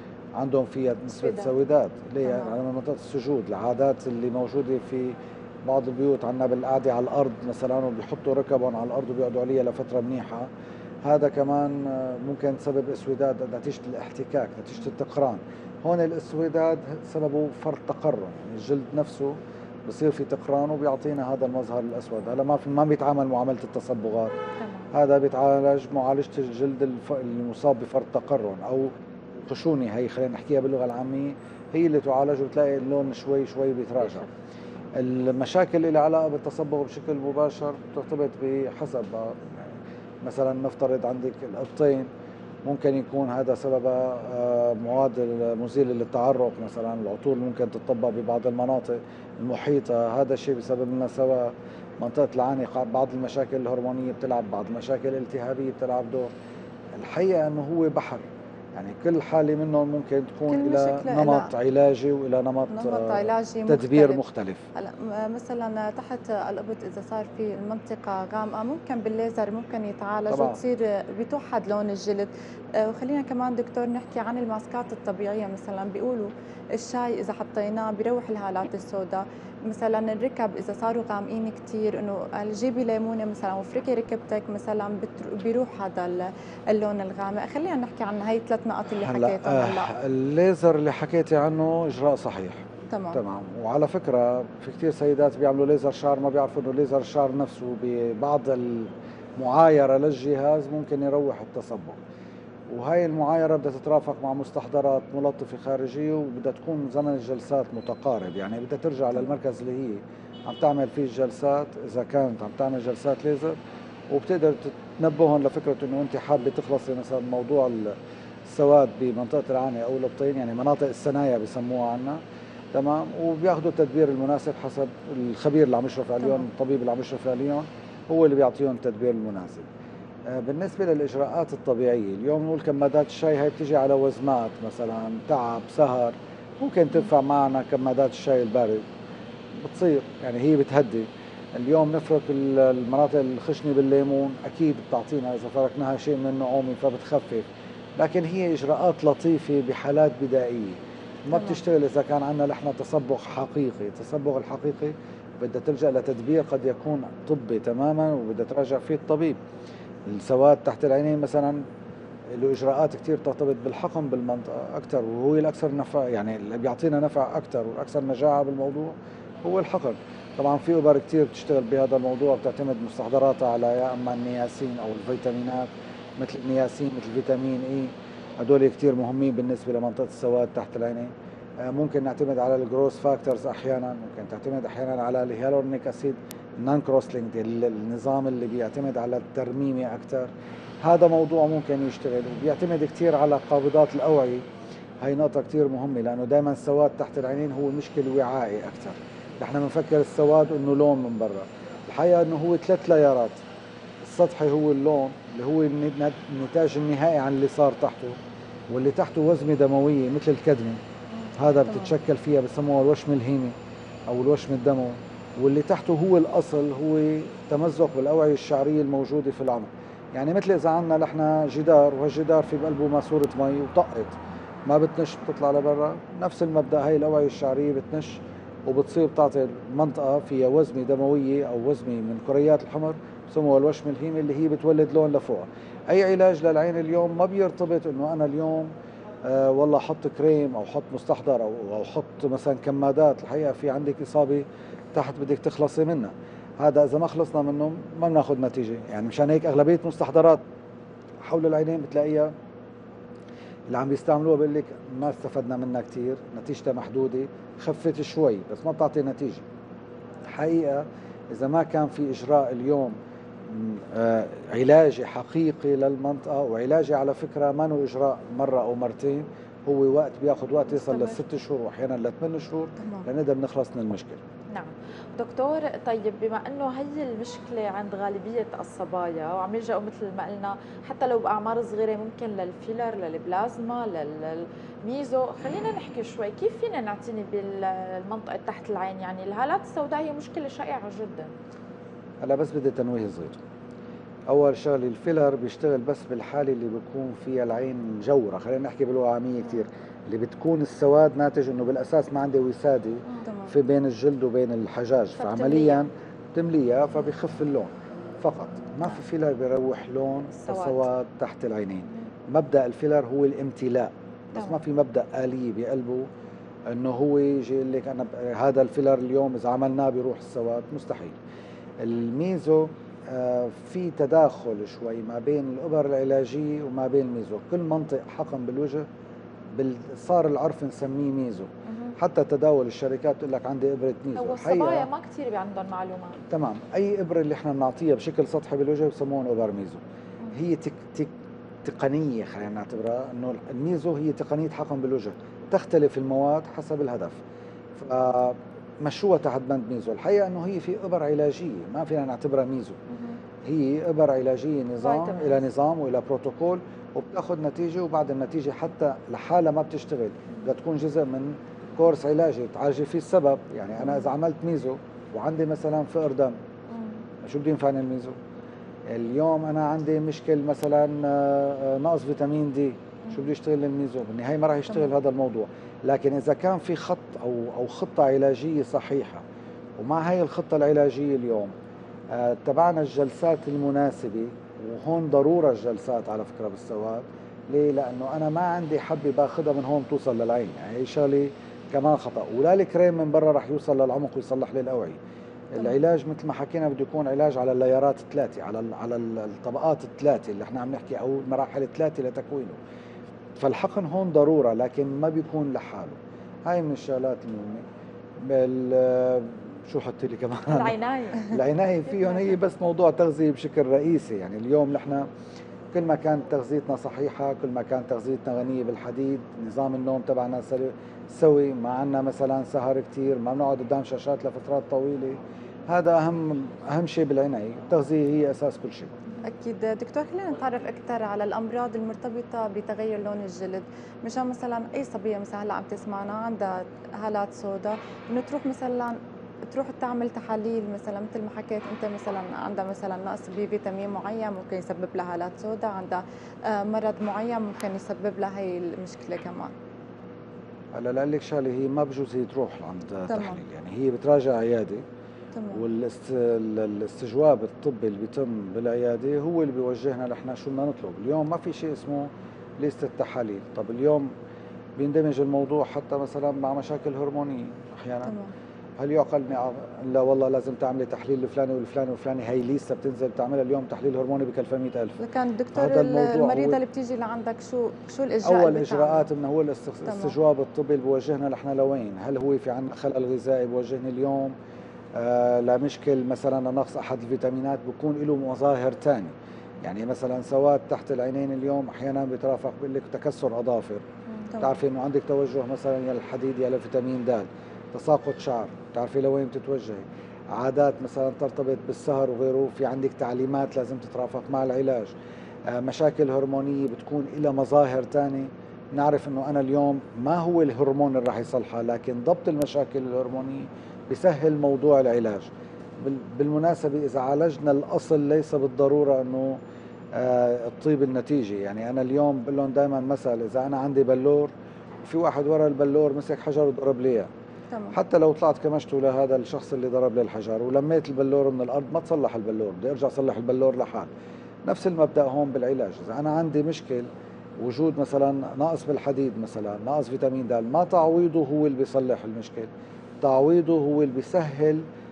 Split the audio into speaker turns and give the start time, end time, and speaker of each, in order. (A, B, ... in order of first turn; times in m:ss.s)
0:00.4-0:10.5 A
0:01.2-0:01.5 B
0:11.0-0:19.4 A
0:19.9-0:24.4 A
0:24.6-0:24.9 B
0:24.9-0:34.3 A
0:34.0-0:34.3 B
0:34.9-0:42.1 A
0:42.6-0:56.3 A
0:57.0-1:04.6 A
1:00.5-1:01.5 C
1:02.7-1:04.2 C
1:04.8-1:29.9 C
1:10.3-1:10.6 A
1:29.0-1:42.0 A
1:32.9-1:33.2 C
1:42.7-1:53.6 A
1:54.1-2:02.2 A
2:02.7-2:09.7 A
2:10.3-2:18.8 A
2:19.6-2:27.5 A
2:28.0-2:39.4 A
2:31.3-2:31.6 C
2:40.1-2:41.6 A
2:42.3-3:10.3 A
3:10.8-3:14.4 A
3:15.0-3:23.4 A
3:24.0-3:28.2 A
3:28.7-3:30.8 A
3:31.2-3:31.9 C
3:31.4-3:33.5 A
3:34.1-3:44.2 A
3:44.7-3:58.7 A
3:59.2-4:10.4 A
4:11.2-4:12.3 A
4:13.7-4:19.4 A
4:20.3-4:34.2 A
4:30.8-4:31.2 B
4:32.8-4:33.1 C
4:34.5-4:51.3 B
4:52.2-4:53.4 A
4:54.3-5:16.1 A
5:03.3-5:03.5 C
5:05.2-5:05.9 B
5:10.4-5:10.9 B
5:16.7-5:21.2 A
5:21.8-5:28.9 A
5:29.5-5:34.9 A
5:31.7-5:31.9 B
5:34.2-5:36.2 B
5:36.2-5:39.8 A
5:40.3-5:41.1 A
5:41.6-5:47.2 A
5:47.8-5:52.8 A
5:53.4-6:06.4 A
5:54.8-5:55.4 B
6:07.2-6:08.2 A
6:08.9-6:19.2 A
6:19.8-6:21.5 A
6:22.1-6:35.0 A
6:35.5-6:42.6 A
6:43.4-6:47.6 A
6:48.2-6:55.1 A
6:50.5-6:51.4 B
6:52.0-6:52.3 B
6:55.7-7:08.9 A
7:09.2-7:29.5 C
7:30.8-7:34.8 A
7:33.1-7:33.4 C
7:35.4-7:35.6 C
7:35.5-7:44.1 A
7:44.8-7:48.1 A
7:48.0-7:48.3 C
7:48.8-7:55.0 A
7:55.0-7:59.1 C
7:55.5-7:56.6 A
7:58.2-8:04.3 A
7:59.9-8:00.2 C
8:05.0-8:13.8 A
8:14.2-8:14.5 C
8:14.4-8:24.9 A
8:25.5-8:39.4 A
8:39.9-8:44.3 A
8:44.8-8:47.1 A
8:47.5-8:47.8 C
8:47.7-8:53.9 A
8:54.5-9:02.5 A
9:03.0-9:04.6 A